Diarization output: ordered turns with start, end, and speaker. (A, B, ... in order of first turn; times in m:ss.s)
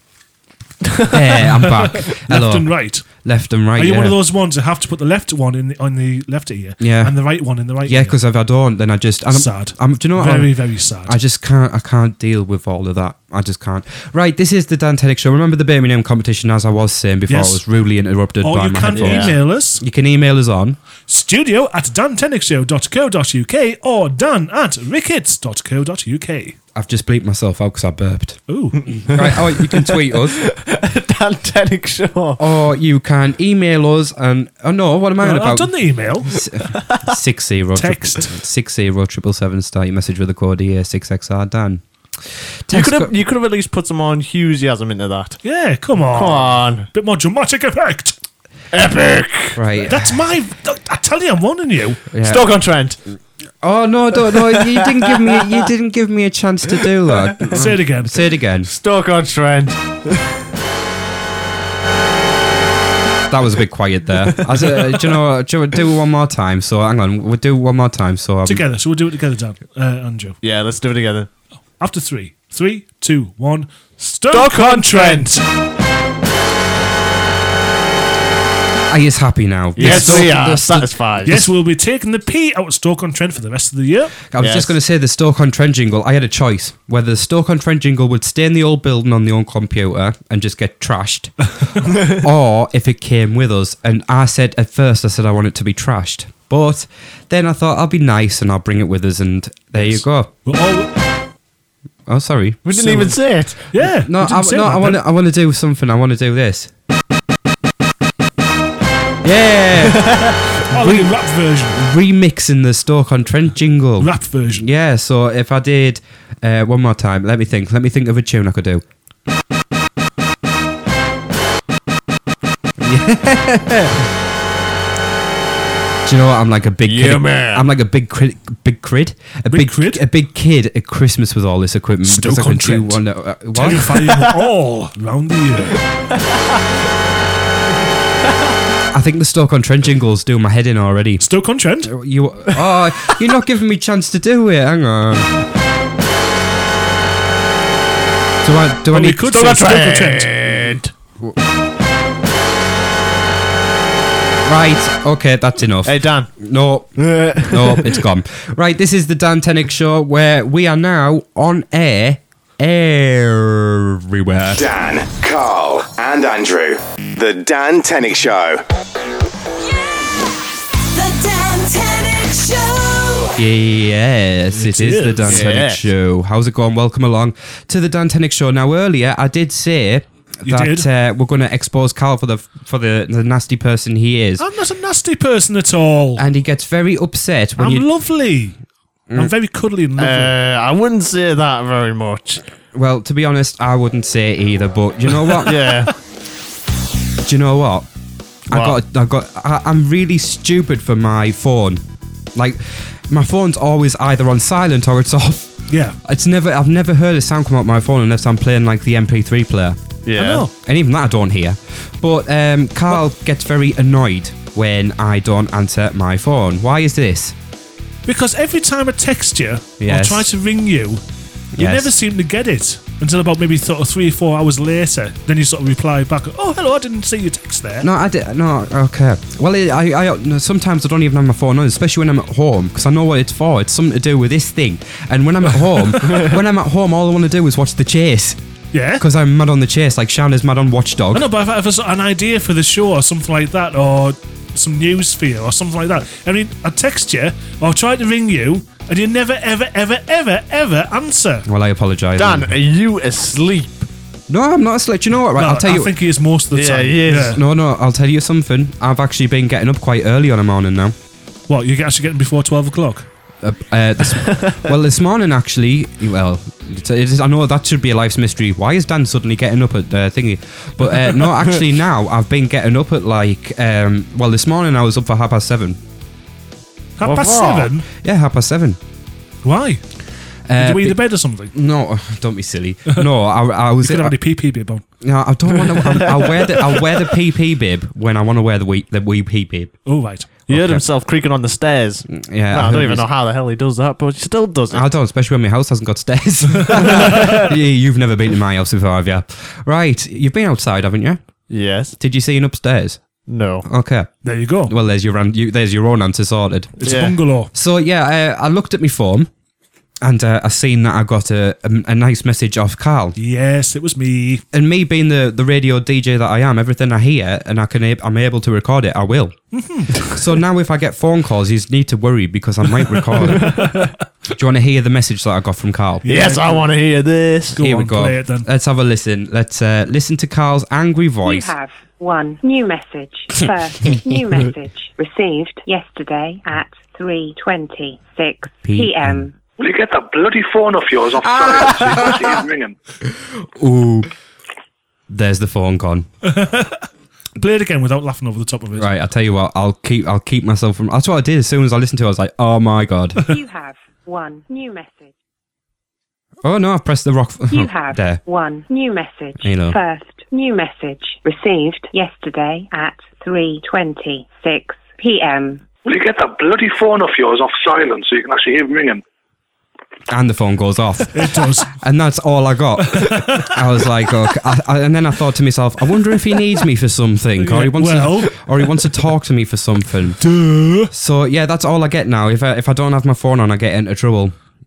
0:01.1-0:04.2 A
0:01.4-0:03.1 B
0:03.8-0:08.2 B
0:06.8-0:07.2 A
0:07.8-0:10.5 A
0:09.3-0:11.2 B
0:11.0-0:20.8 A
0:17.3-0:17.6 B
0:18.4-0:19.8 B
0:18.9-0:19.3 C
0:21.1-0:26.6 B
0:26.8-0:28.4 A
0:28.5-0:29.0 B
0:29.0-0:30.4 A
0:29.1-0:32.4 C
0:32.4-0:35.7 A
0:35.2-0:36.4 B
0:36.2-0:43.1 A
0:37.8-0:38.3 B
0:42.7-0:45.4 C
0:45.4-0:48.2 B
0:46.1-0:46.9 C
0:48.7-0:49.6 C
0:49.6-0:50.1 A
0:49.8-0:52.0 B
0:52.1-0:52.5 A
0:52.2-0:53.0 C
0:53.6-0:58.7 A
0:54.5-0:55.5 C
0:57.5-0:58.3 B
0:58.6-1:00.2 C
1:03.3-1:08.6 A
1:08.4-1:10.4 B
1:10.4-1:11.3 C
1:11.8-1:15.4 B
1:14.3-1:15.3 C
1:18.9-1:21.4 A
1:19.8-1:21.4 C
1:19.8-1:20.4 B
1:21.3-1:24.2 B
1:24.3-1:40.3 A
1:24.4-1:24.7 C
1:39.8-1:40.9 B
1:42.1-1:42.6 A
1:42.6-1:43.7 C
1:42.7-1:45.0 B
1:44.0-1:46.7 A
1:49.2-1:51.1 A
1:49.8-1:50.5 C
1:50.7-1:51.8 B
1:51.7-1:58.8 A
1:54.0-1:54.7 B
2:02.8-2:04.1 A
2:06.0-2:14.0 A
2:06.9-2:07.7 C
2:09.5-2:10.0 B
2:12.1-2:13.0 B
2:13.5-2:15.8 B
2:16.1-2:16.6 C
2:18.9-2:21.2 A
2:21.2-2:21.9 B
2:21.8-2:25.4 A
2:28.4-2:29.5 A
2:28.9-2:30.7 B
2:29.3-2:30.9 C
2:34.4-2:44.6 A
2:35.8-2:36.3 C
2:37.0-2:38.0 C
2:44.5-2:48.6 D
2:49.6-2:50.4 E
2:50.9-2:53.4 E
2:53.4-3:04.4 A
2:54.5-2:55.4 B
2:55.3-2:55.8 C
3:00.4-3:00.9 B
3:04.4-3:06.2 B
3:06.2-3:07.9 A
3:07.6-3:08.6 B
3:09.2-3:10.4 B
3:10.0-3:12.4 C
3:12.7-3:15.8 A
3:15.4-3:15.9 C
3:17.2-3:17.9 A
3:18.5-3:21.8 A
3:18.5-3:18.8 C
3:22.4-3:29.8 A
3:25.7-3:26.0 B
3:30.0-3:30.4 C
3:30.2-3:30.5 B
3:30.6-3:37.4 A
3:38.1-3:41.0 B
3:39.8-3:40.3 A
3:41.5-3:41.9 A
3:41.6-3:47.9 B
3:47.8-3:58.4 A
3:58.7-3:59.0 B
3:59.0-4:01.3 A
4:01.1-4:11.4 B
4:11.5-4:12.5 A
4:12.2-4:13.9 C
4:14.3-4:15.9 A
4:15.4-4:17.4 B
4:16.5-4:17.4 C
4:17.3-4:21.0 A
4:21.5-4:23.1 B
4:23.4-4:35.8 A
4:24.3-4:24.6 C
4:37.0-4:37.9 B
4:37.0-4:37.7 C
4:38.0-4:38.8 A
4:39.4-4:39.8 B
4:40.5-4:41.0 A
4:40.6-4:41.5 B
4:41.5-4:44.1 A
4:43.8-4:44.8 B
4:45.0-4:49.7 A
4:45.5-4:47.0 B
4:49.9-4:50.3 B
4:50.5-4:50.8 A
4:50.5-4:54.9 C
4:52.1-4:53.1 A
4:54.7-5:01.2 A
4:56.7-4:57.3 B
4:56.8-4:57.4 C
5:01.5-5:01.9 C
5:02.0-5:03.0 A
5:03.3-5:03.7 C
5:03.6-5:04.1 A
5:04.2-5:04.7 B
5:04.6-5:06.9 A
5:06.8-5:07.5 B
5:06.8-5:07.1 C
5:07.5-5:09.3 A
5:10.0-5:13.2 A
5:13.2-5:14.4 B
5:14.5-5:19.4 A
5:19.5-5:20.1 B
5:20.1-5:23.7 A
5:22.9-5:23.8 B
5:23.4-5:23.9 C
5:24.3-5:26.0 A
5:26.0-5:26.7 B
5:26.1-5:27.6 C
5:27.5-5:28.5 B
5:27.6-5:31.5 A
5:31.2-5:39.3 F
5:38.6-5:39.2 A
5:39.6-5:42.8 G
5:41.3-5:42.1 A
5:43.2-5:44.1 A
5:45.1-5:46.1 A
5:46.2-5:46.9 B
5:47.4-5:48.9 B
5:48.8-5:53.2 A
5:53.2-5:55.1 F
5:56.4-5:58.2 A
5:57.5-6:05.6 F
5:59.4-5:59.8 A
6:05.8-6:09.0 G
6:10.1-6:20.2 A
6:11.1-6:11.7 B
6:12.9-6:13.5 B
6:17.4-6:18.4 B
6:20.2-6:20.9 B
6:20.9-6:24.4 A